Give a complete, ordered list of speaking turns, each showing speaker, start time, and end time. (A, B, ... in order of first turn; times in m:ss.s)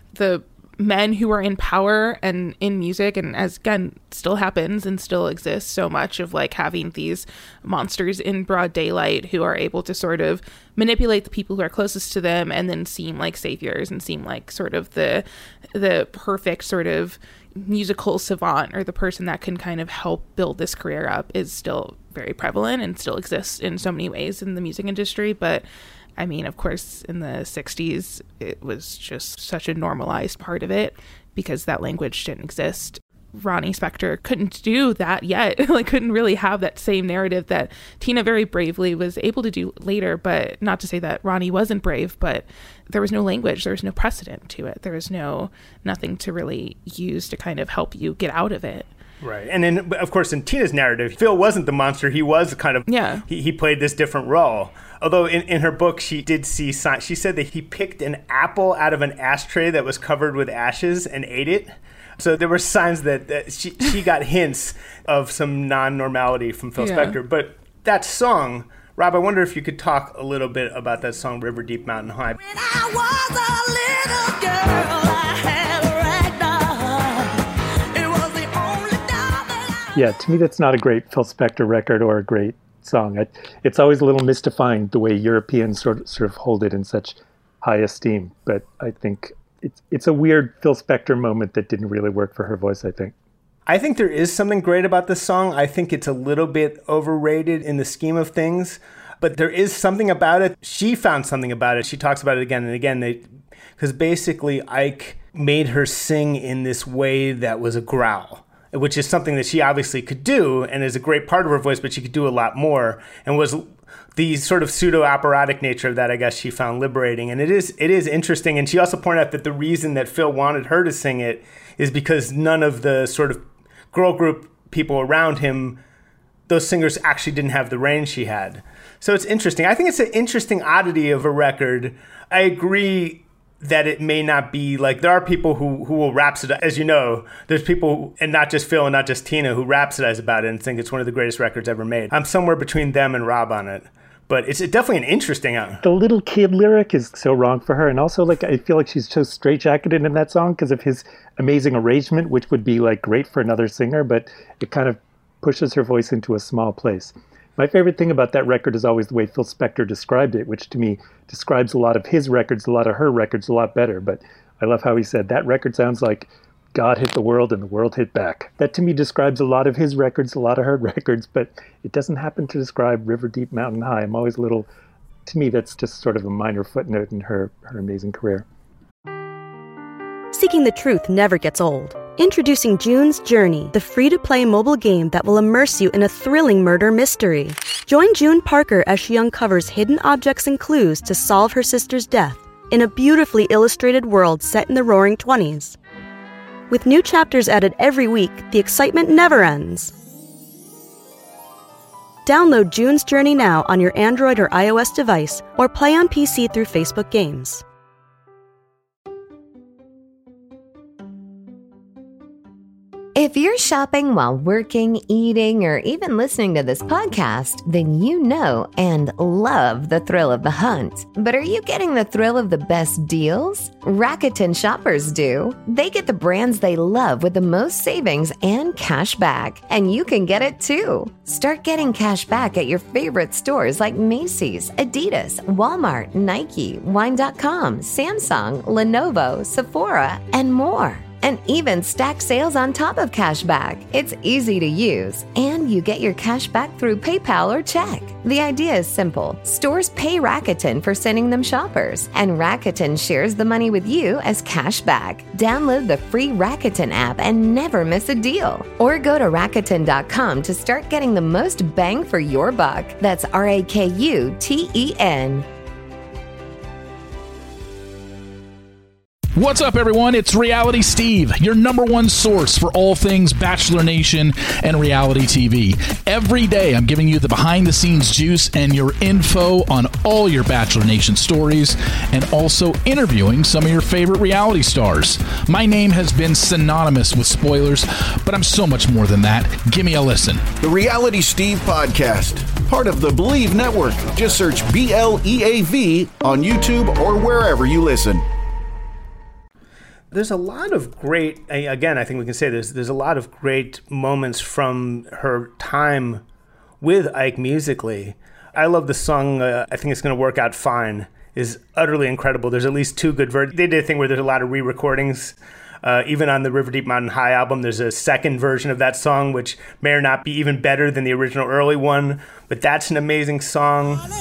0:00.1-0:25.6 A
0:26.2-0:48.9 A
0:49.2-1:12.4 B
0:52.9-0:53.2 A
1:06.8-1:07.2 A
1:12.4-1:19.9 C
1:19.9-1:33.1 D
1:33.7-1:43.2 B
1:43.8-2:05.8 B
2:06.5-2:25.8 B
2:25.8-2:54.7 D
2:55.2-2:58.5 D
3:00.3-3:15.8 E
3:16.7-3:19.9 E
3:22.2-3:27.6 E
3:33.2-4:25.5 F
4:29.4-4:50.5 G
4:50.6-4:58.2 H
5:00.1-5:06.2 B
5:06.8-5:24.0 B